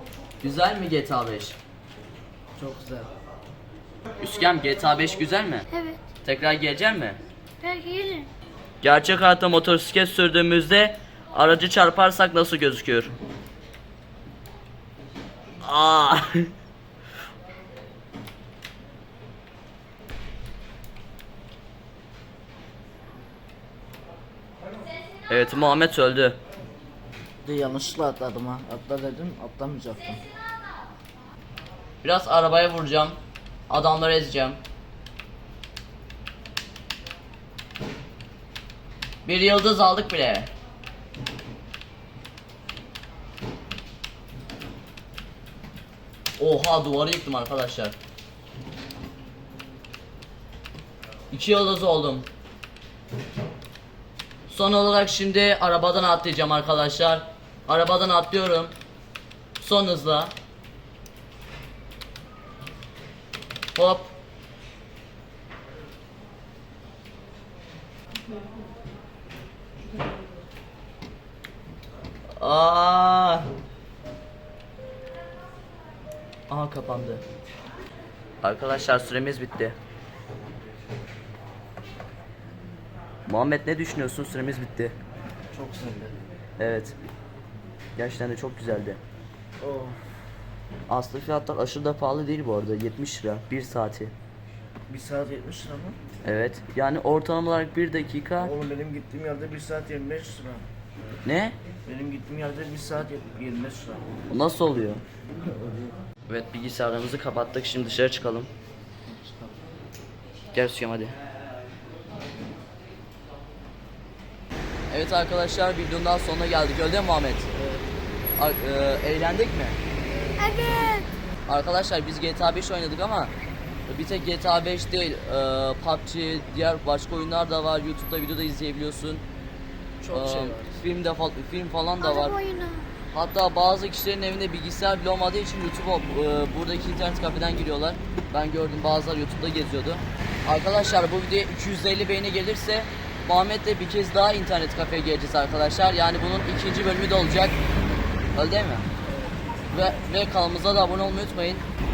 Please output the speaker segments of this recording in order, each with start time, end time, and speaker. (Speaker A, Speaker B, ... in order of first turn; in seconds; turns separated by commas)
Speaker A: 0.4-1.6, Speaker B: 2.5-3.1, Speaker A: 4.2-5.7, Speaker C: 5.7-6.0, Speaker A: 6.2-7.2, Speaker C: 7.6-8.3, Speaker A: 8.8-13.1, Speaker A: 15.6-16.5, Speaker A: 25.3-26.4, Speaker B: 27.4-30.2, Speaker A: 32.0-33.2, Speaker A: 33.7-34.6, Speaker A: 39.2-40.5, Speaker A: 46.4-47.9, Speaker A: 51.3-52.3, Speaker A: 54.5-58.7, Speaker A: 59.6-60.3, Speaker A: 63.7-64.1, Speaker A: 72.4-73.5, Speaker A: 76.5-77.2, Speaker A: 78.4-79.8, Speaker A: 83.2-85.0, Speaker B: 85.5-86.1, Speaker A: 86.6-87.0, Speaker A: 88.0-89.0, Speaker B: 89.6-90.0, Speaker A: 90.9-94.1, Speaker B: 94.9-96.0, Speaker A: 96.2-98.5, Speaker B: 98.4-100.6, Speaker A: 101.2-101.5, Speaker B: 101.8-104.0, Speaker A: 104.3-105.0, Speaker B: 105.6-105.9, Speaker A: 106.3-108.5, Speaker B: 109.0-109.6, Speaker A: 110.5-111.2, Speaker A: 114.9-117.5, Speaker B: 117.5-117.8, Speaker A: 118.4-119.8, Speaker B: 120.1-120.9, Speaker C: 120.4-121.1, Speaker A: 121.5-123.3, Speaker A: 123.9-129.2, Speaker B: 130.0-130.8, Speaker A: 130.1-132.3, Speaker C: 132.0-132.9, Speaker A: 133.1-147.6, Speaker A: 148.3-148.8, Speaker B: 149.1-149.3, Speaker A: 149.7-151.6